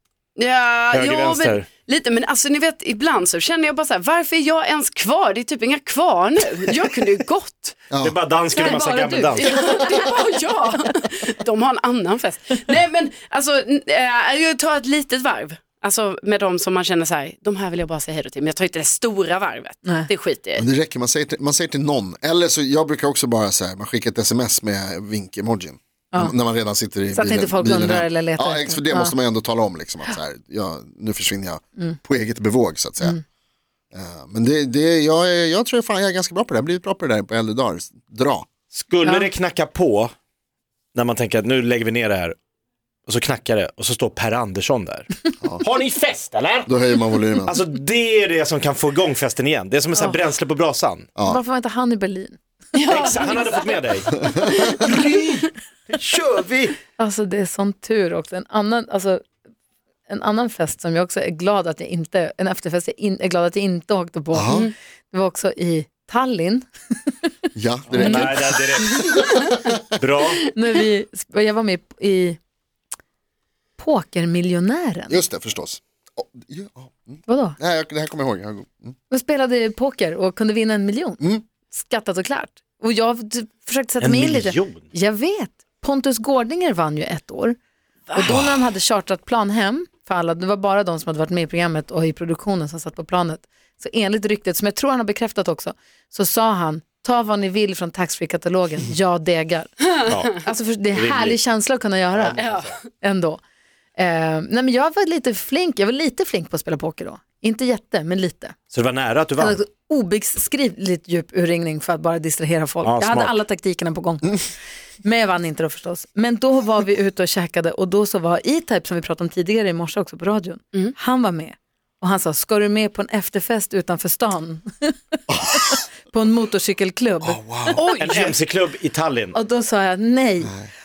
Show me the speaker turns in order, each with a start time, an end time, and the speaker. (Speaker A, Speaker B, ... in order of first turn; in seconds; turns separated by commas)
Speaker A: 0.4-7.8, Speaker B: 0.9-1.7, Speaker C: 7.9-8.2, Speaker B: 8.0-9.5, Speaker D: 8.6-10.4, Speaker A: 9.3-20.7, Speaker D: 19.9-20.1, Speaker C: 20.6-33.2, Speaker D: 27.1-29.1, Speaker C: 33.9-38.5, Speaker B: 38.7-40.1, Speaker B: 41.0-42.4, Speaker B: 43.1-46.7, Speaker C: 46.7-47.6, Speaker B: 47.5-51.1, Speaker C: 51.2-51.4, Speaker D: 51.3-52.4, Speaker A: 52.8-53.9, Speaker B: 52.9-54.1, Speaker A: 54.5-55.0, Speaker B: 54.7-56.8, Speaker D: 57.0-59.2, Speaker D: 60.1-64.6, Speaker C: 64.3-64.7, Speaker D: 65.1-66.7, Speaker C: 67.6-69.8, Speaker B: 67.9-69.1, Speaker D: 68.0-69.4, Speaker B: 70.0-70.4, Speaker D: 70.5-72.4, Speaker D: 73.8-75.2, Speaker C: 75.1-79.0, Speaker D: 77.3-77.6, Speaker D: 79.1-87.6, Speaker B: 84.0-84.9, Speaker D: 88.1-102.4, Speaker C: 88.3-88.6, Speaker B: 100.1-100.4, Speaker B: 100.9-101.4, Speaker B: 102.2-102.7, Speaker A: 102.4-102.7, Speaker D: 103.0-103.4, Speaker D: 104.0-108.6, Speaker B: 108.7-109.6, Speaker D: 109.4-114.5, Speaker B: 112.8-113.4, Speaker D: 115.0-127.4, Speaker C: 125.3-125.6, Speaker C: 127.2-127.8, Speaker A: 127.8-128.4, Speaker B: 128.0-129.3, Speaker D: 129.3-130.5, Speaker C: 130.4-130.7